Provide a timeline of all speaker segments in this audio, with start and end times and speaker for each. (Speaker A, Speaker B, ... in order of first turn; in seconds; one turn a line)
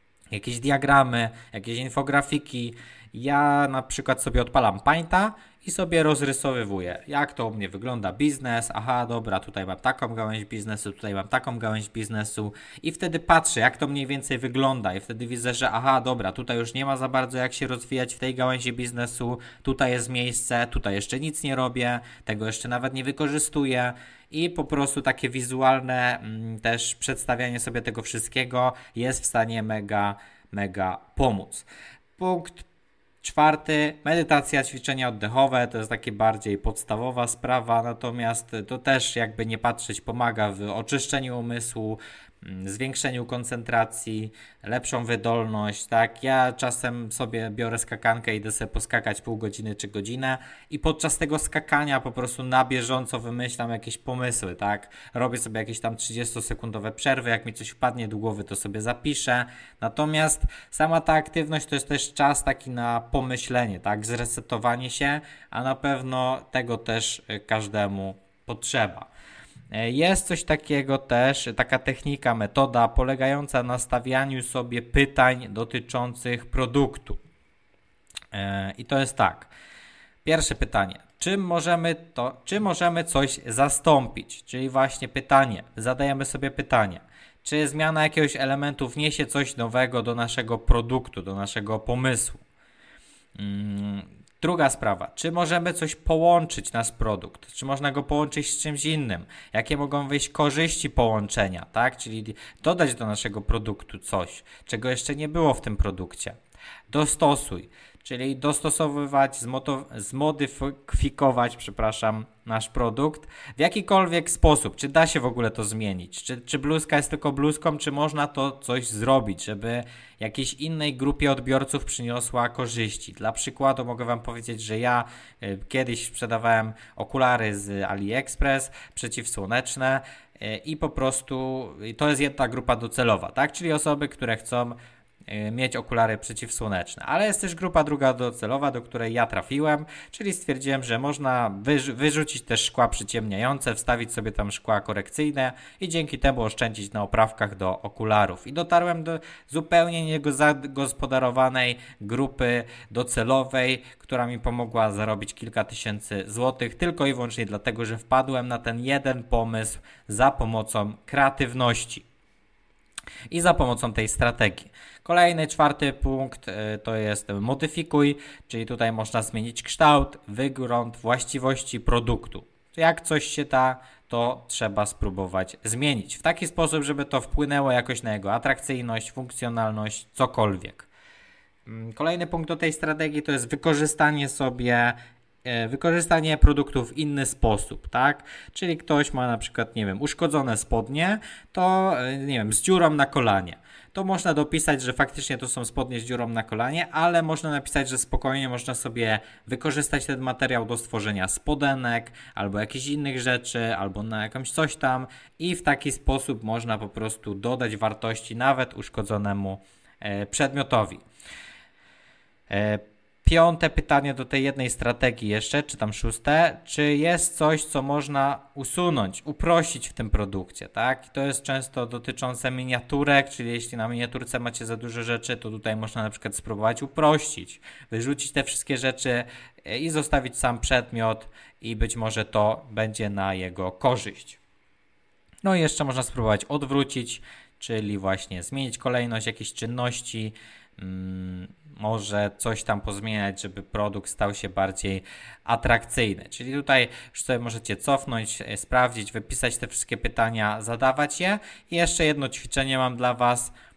Speaker A: 0.3-31.7
Speaker A: 32.2-32.6
Speaker A: 33.2-69.1
Speaker A: 69.7-77.2
Speaker A: 78.3-79.5
Speaker A: 80.2-92.4
Speaker A: 93.3-106.4
Speaker A: 106.9-134.8
Speaker A: 135.3-162.1
Speaker A: 163.3-180.9
Speaker A: 181.7-211.0
Speaker A: 212.5-234.4
Speaker A: 235.4-253.5